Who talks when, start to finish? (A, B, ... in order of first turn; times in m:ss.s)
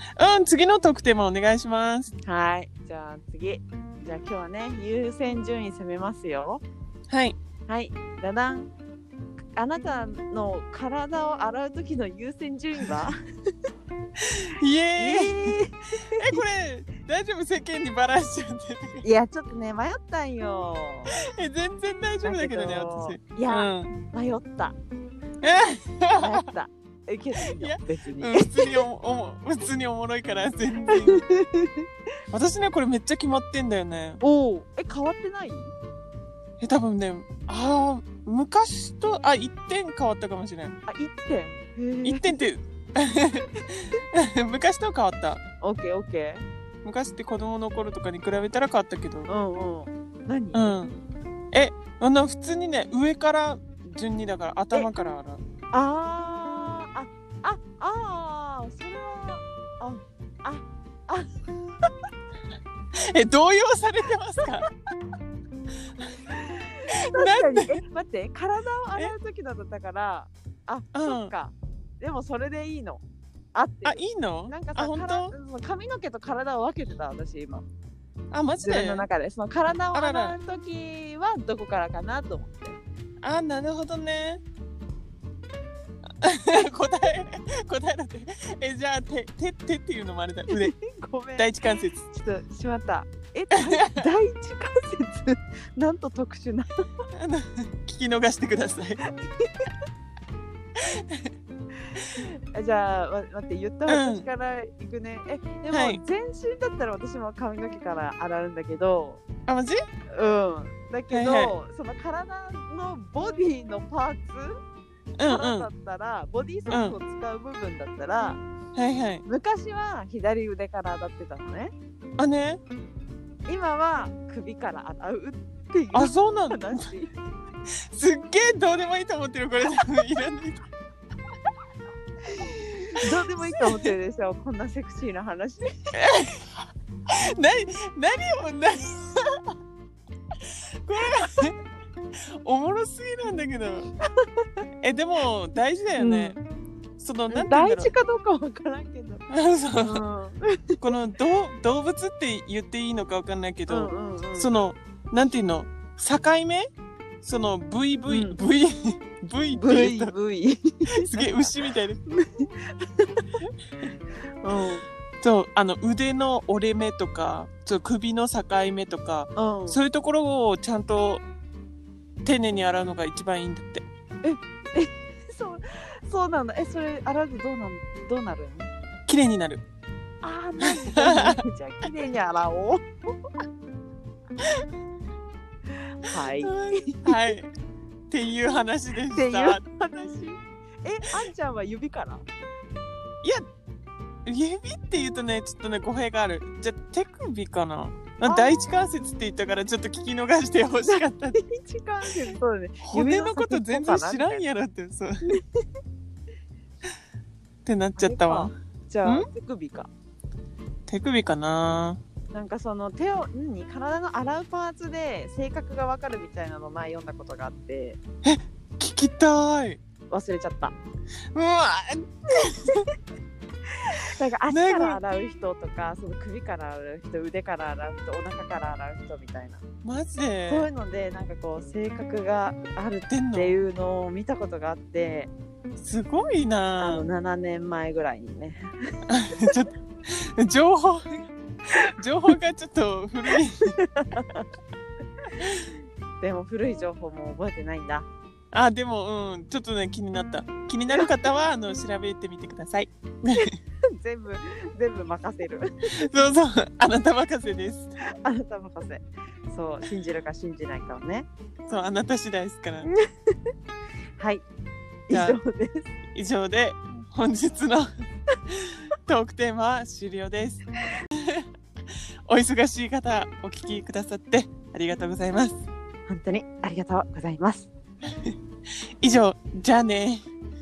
0:00.2-0:02.1 A
0:02.2-0:06.6 B
0:07.1-0:07.4 A
0:07.7-0:08.7 B
0:09.5-0:13.2 B
0:14.2-0:15.6 A
0:15.0-0:16.4 B
0:16.2-0:19.0 A
0:19.0-0:21.1 B
0:21.1-0:24.0 A
0:22.2-0:24.8 B
0:25.4-0:26.4 A
0:26.2-0:28.8 B
0:27.4-0:31.2 A
0:30.9-0:31.9 B
0:32.3-0:34.2 A
0:34.2-0:35.7 B
0:36.6-0:40.8 A
0:40.9-0:42.4 B
0:42.0-0:45.4 A
0:45.6-0:46.4 B
0:46.8-0:49.3 A
0:49.3-0:50.8 B
0:50.5-0:51.0 A
0:51.5-0:55.4 A
0:55.7-1:01.9 B
1:02.9-1:04.7 A
1:06.3-1:13.0 B
1:06.9-1:07.7 A
1:10.9-1:11.3 A
1:13.5-1:17.6 B
1:13.8-1:15.3 A
1:18.3-1:19.1 A
1:18.6-1:22.8 B
1:19.9-1:20.4 A
1:23.2-1:24.4 A
1:26.2-1:30.7 A
1:30.5-1:36.8 B
1:31.4-1:32.0 A
1:33.6-1:34.0 A
1:37.1-1:39.0 A
1:39.1-1:39.7 B
1:40.8-1:41.3 A
1:42.0-1:49.2 B
1:43.9-1:44.3 A
1:45.7-1:46.0 A
1:49.5-1:49.8 A
1:50.1-1:54.6 B
1:51.1-1:51.5 A
1:55.2-1:55.7 A
1:55.2-1:58.4 B
1:56.7-1:57.0 A
1:58.8-1:59.2 A
1:59.3-2:01.7 B
2:02.2-2:02.6 A
2:03.5-2:07.1 B
2:05.9-2:06.9 A
2:07.9-2:10.6 A
2:12.3-2:15.7 B
2:13.0-2:13.9 A
2:16.0-2:16.4 A
2:17.1-2:19.2 A
2:20.4-2:21.6 A
2:22.4-2:23.9 A
2:24.8-2:26.4 A
2:26.0-2:26.4 B
2:27.0-2:27.9 A
2:27.3-2:29.3 B
2:29.3-2:30.0 A
2:29.8-2:30.9 B
2:30.8-2:36.7 A
2:33.7-2:34.5 B
2:37.2-2:40.1 A
2:38.1-2:38.4 B
2:39.5-2:41.2 B
2:41.0-2:42.0 A
2:42.1-2:43.3 B
2:44.4-2:44.8 B
2:45.2-2:51.2 A
2:49.4-2:49.8 B
2:52.2-2:53.8 A
2:54.2-2:58.7 B
2:59.1-2:59.6 A
3:00.2-3:03.3 B
3:00.6-3:01.4 A
3:05.9-3:07.3 B
3:06.4-3:07.5 A
3:08.1-3:09.6 A
3:09.1-3:12.3 B
3:14.3-3:21.4 A
3:18.2-3:18.5 B
3:20.9-3:24.4 B
3:22.3-3:25.3 A
3:25.2-3:25.6 B
3:27.7-3:28.5 A
3:28.0-3:29.9 B
3:30.9-3:32.0 A
3:32.3-3:38.0 B
3:38.2-3:39.8 A
3:40.1-3:40.8 B
3:41.3-3:42.8 A
3:43.9-3:49.6 B
3:44.5-3:45.0 A
3:49.8-3:50.7 A
3:50.5-3:55.3 B
3:53.1-3:53.6 A
3:55.8-3:57.0 A
3:56.8-3:58.7 B
3:59.1-4:01.3 A
4:01.9-4:03.8 A
4:03.8-4:04.4 B
4:06.2-4:08.1 B
4:08.5-4:13.5 A
4:13.3-4:15.7 B
4:15.9-4:18.0 A
4:18.2-4:21.3 B
4:21.7-4:22.9 A
4:22.9-4:23.5 B
4:24.2-4:24.4 B
4:25.1-4:25.9 B
4:25.1-4:25.4 A
4:26.2-4:27.9 A
4:28.5-4:31.4 A
4:32.3-4:35.6 A
4:36.1-4:37.7 B
4:39.0-4:40.3 A